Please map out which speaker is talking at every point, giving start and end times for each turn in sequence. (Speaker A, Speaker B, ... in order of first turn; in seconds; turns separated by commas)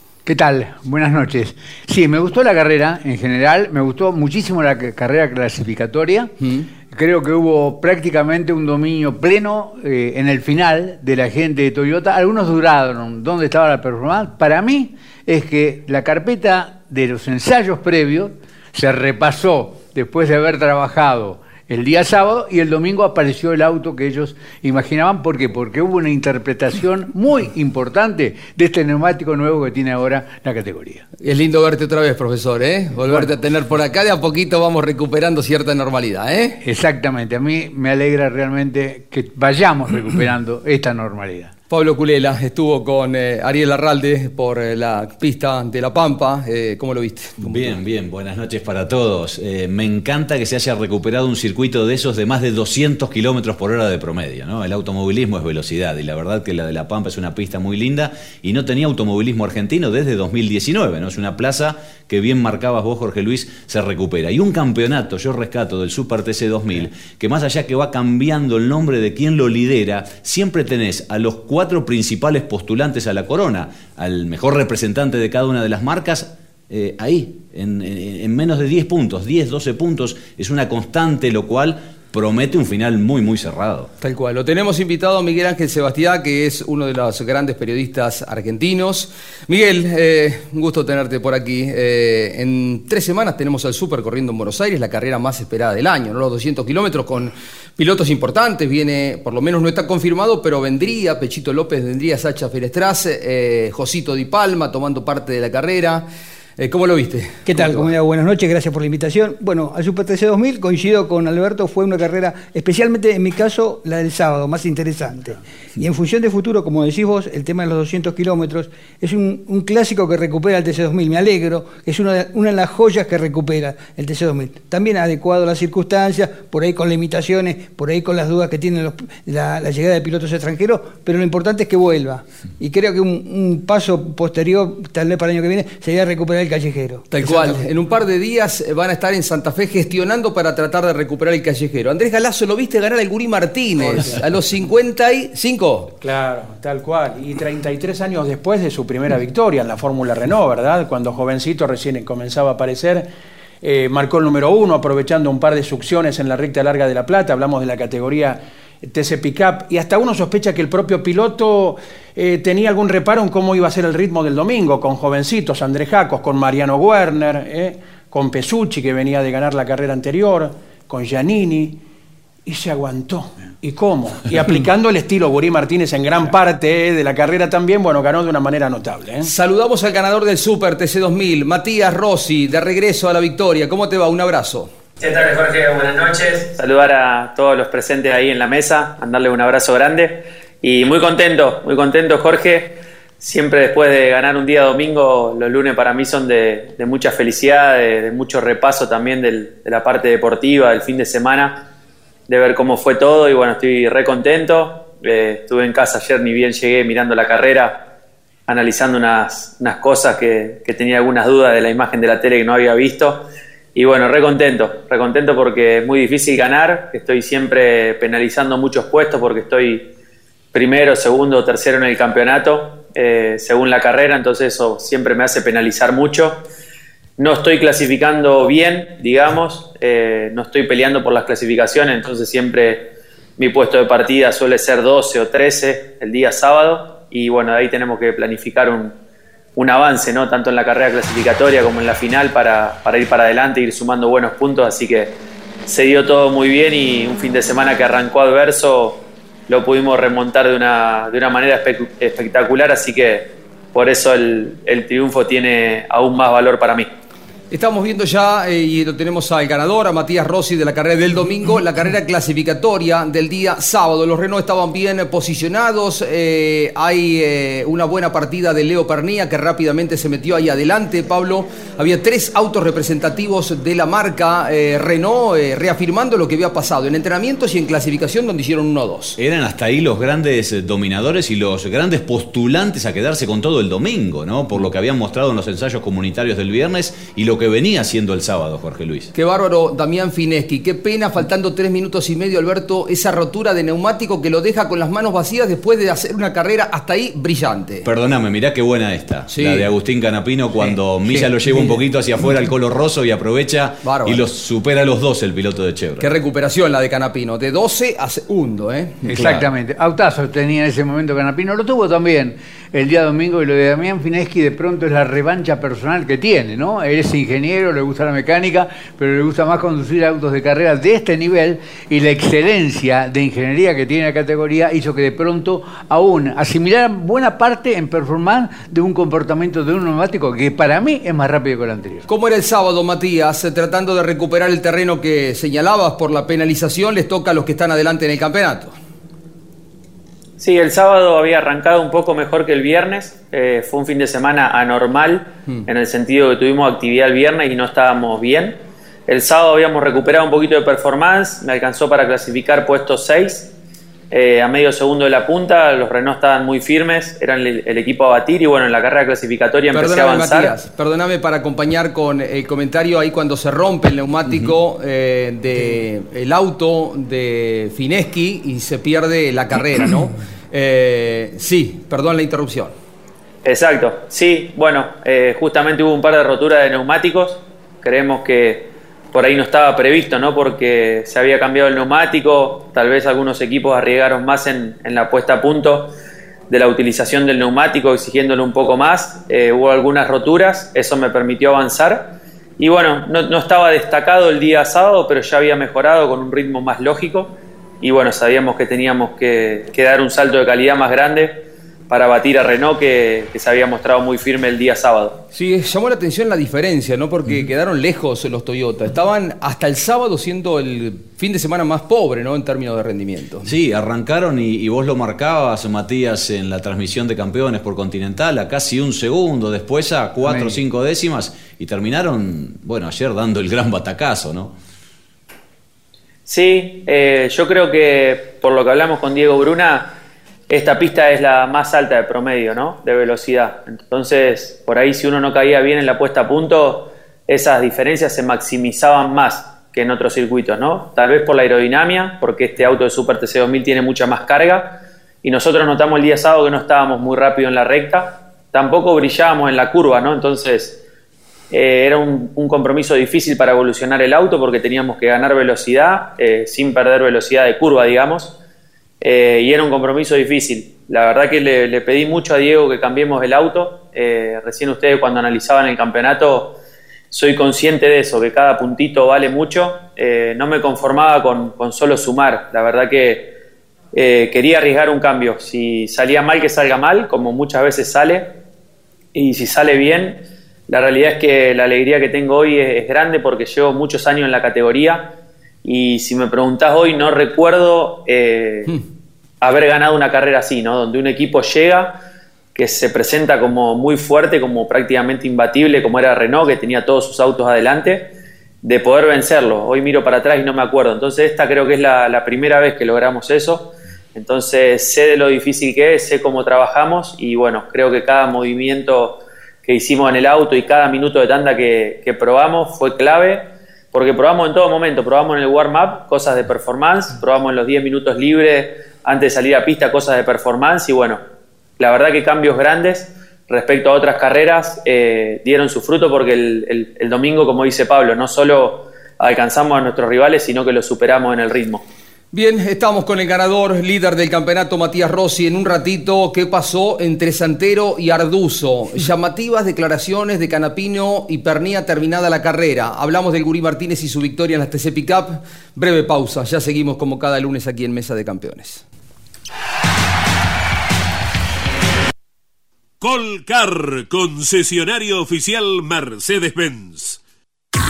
Speaker A: 0.2-6.3, Speaker B: 6.4-6.7, Speaker A: 6.9-31.1, Speaker B: 31.2-36.6, Speaker A: 36.6-41.5, Speaker B: 41.7-47.8, Speaker C: 47.4-83.9, Speaker B: 84.0-106.0, Speaker B: 106.6-107.9, Speaker D: 107.5-137.7, Speaker B: 137.1-145.9, Speaker E: 143.8-144.2, Speaker E: 146.0-153.1, Speaker E: 153.6-171.8, Speaker E: 172.4-179.3, Speaker B: 179.2-184.7, Speaker F: 185.0-201.6, Speaker F: 202.3-207.8, Speaker F: 208.5-213.2, Speaker F: 213.7-219.8, Speaker F: 220.5-226.4, Speaker F: 227.2-238.9, Speaker F: 239.6-245.1, Speaker F: 245.7-256.9, Speaker B: 257.5-279.2, Speaker C: 279.2-289.1, Speaker B: 289.1-297.9, Speaker C: 297.8-306.1, Speaker B: 299.3-299.7, Speaker A: 301.1-301.6, Speaker B: 303.8-304.2, Speaker B: 306.0-309.4, Speaker A: 309.0-332.1, Speaker B: 332.1-338.8, Speaker F: 340.4-353.5, Speaker F: 354.1-360.5, Speaker B: 359.7-372.7, Speaker C: 364.3-364.5, Speaker F: 373.4-385.9, Speaker F: 386.5-405.2, Speaker B: 405.3-413.5, Speaker C: 413.4-424.6, Speaker A: 420.2-420.6, Speaker F: 426.3-429.9, Speaker F: 430.5-450.8, Speaker F: 451.5-458.3, Speaker F: 459.0-466.6, Speaker F: 467.1-473.3, Speaker F: 473.9-478.3, Speaker F: 479.1-485.1, Speaker F: 485.6-488.7, Speaker F: 489.4-492.0, Speaker F: 492.5-498.1, Speaker F: 498.6-521.2, Speaker F: 521.8-531.8, Speaker B: 532.3-548.8, Speaker G: 553.0-557.2